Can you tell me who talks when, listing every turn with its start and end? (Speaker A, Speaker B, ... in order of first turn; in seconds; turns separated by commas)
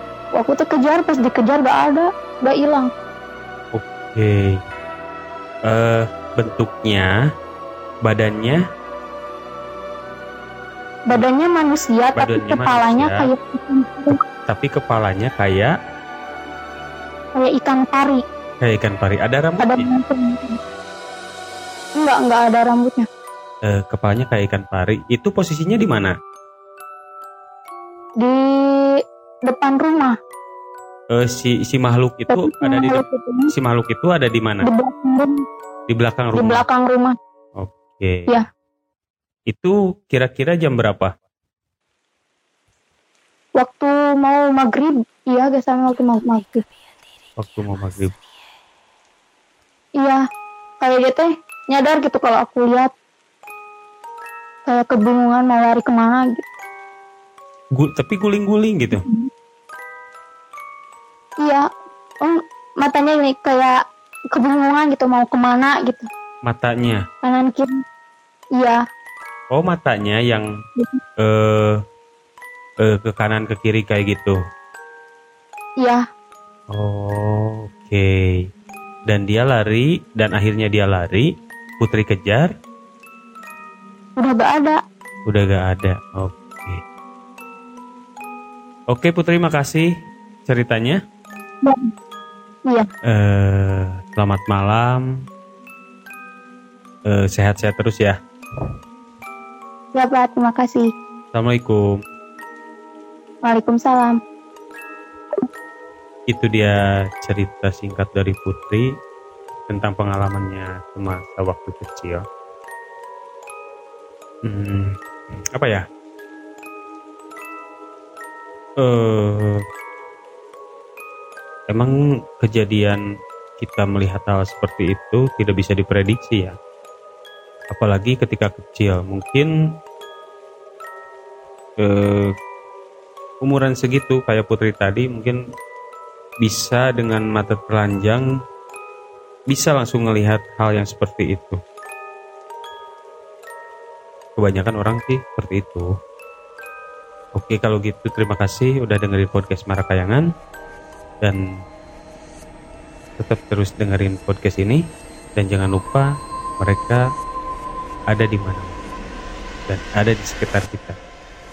Speaker A: 0.3-2.9, Speaker B: 3.7-4.6, Speaker B: 5.7-7.1, Speaker B: 8.0-8.6, Speaker A: 11.1-14.2, Speaker B: 12.2-13.3, Speaker B: 14.4-15.7, Speaker A: 17.4-18.2, Speaker B: 18.6-19.9, Speaker A: 19.6-20.6, Speaker A: 22.0-23.1, Speaker B: 23.7-26.1, Speaker A: 28.2-30.1, Speaker B: 31.1-34.7, Speaker A: 32.3-33.5, Speaker A: 34.6-35.4, Speaker B: 35.9-36.6, Speaker A: 36.3-37.1, Speaker B: 37.6-38.3, Speaker B: 39.5-41.1, Speaker A: 43.6-46.6, Speaker B: 47.4-48.1, Speaker A: 50.8-52.9, Speaker A: 54.6-56.4, Speaker B: 57.8-59.0, Speaker A: 58.9-59.3, Speaker A: 62.2-63.8, Speaker A: 64.3-66.1, Speaker B: 66.5-67.0, Speaker A: 67.2-67.7, Speaker B: 69.5-70.5, Speaker B: 71.2-71.8, Speaker B: 72.8-74.4, Speaker B: 76.7-78.1, Speaker B: 79.1-82.5, Speaker A: 84.2-84.8, Speaker B: 85.3-86.8, Speaker B: 88.9-89.9, Speaker B: 90.5-91.0, Speaker B: 93.1-95.0, Speaker B: 97.1-98.1, Speaker A: 99.9-100.9, Speaker B: 101.3-101.8, Speaker A: 103.4-104.2, Speaker B: 106.3-108.9, Speaker B: 109.7-112.2, Speaker B: 114.5-114.9, Speaker B: 115.5-115.8, Speaker B: 118.8-119.6, Speaker B: 121.7-123.0, Speaker B: 123.6-126.5, Speaker B: 127.7-129.5, Speaker B: 131.8-132.3, Speaker B: 133.4-135.4, Speaker B: 136.4-138.3, Speaker B: 139.5-141.6, Speaker B: 144.4-145.9, Speaker B: 147.3-150.2, Speaker B: 153.2-154.8, Speaker B: 155.3-156.1, Speaker B: 156.6-157.0, Speaker B: 158.1-158.8, Speaker B: 159.7-160.9